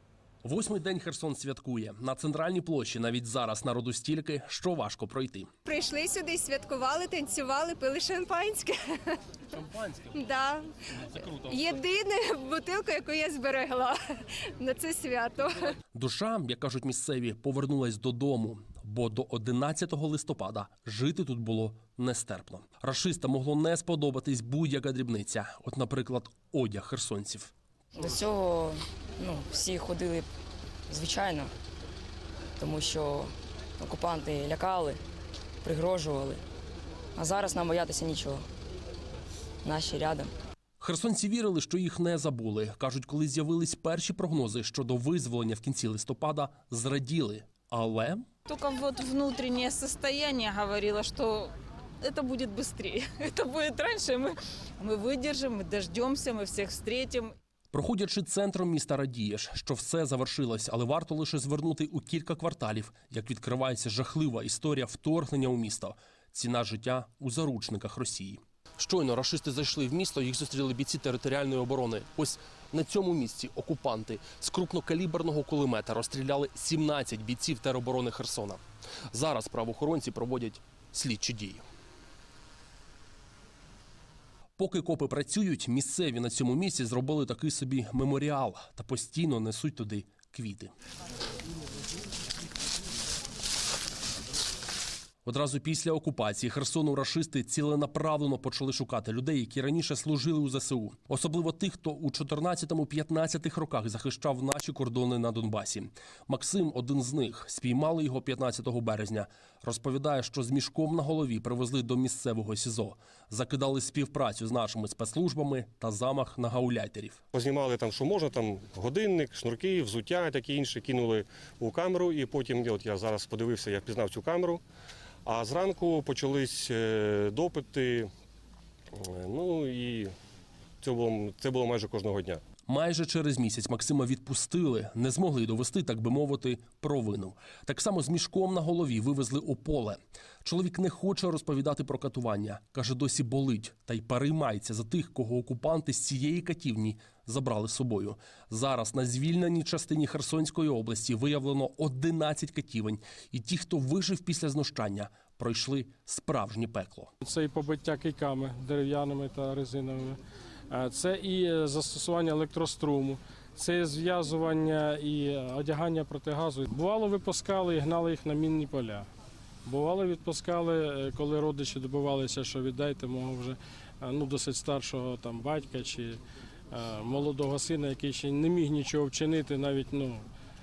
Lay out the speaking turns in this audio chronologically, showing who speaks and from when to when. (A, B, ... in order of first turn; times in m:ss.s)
0:00.4-0:05.5 A
0:05.7-0:15.8 B
0:09.6-0:10.1 A
0:11.4-0:11.7 A
0:15.9-0:27.5 A
0:28.0-0:30.3 C
0:30.9-0:31.5 C
0:32.6-0:35.0 C
0:35.6-0:36.4 C
0:37.2-0:38.5 C
0:39.6-0:40.3 C
0:40.8-0:48.3 A
0:48.5-0:57.4 D
0:57.7-1:18.6 A
1:19.1-1:21.6 A
1:24.6-1:30.7 A
1:35.3-1:57.2 A
1:57.3-2:04.6 E
2:05.2-2:08.1 E
2:08.9-2:10.1 E
2:10.8-2:12.4 E
2:12.7-2:37.1 A
2:37.2-2:40.2 F
2:40.7-2:49.1 F
2:49.7-2:56.2 F
2:56.7-3:00.3 F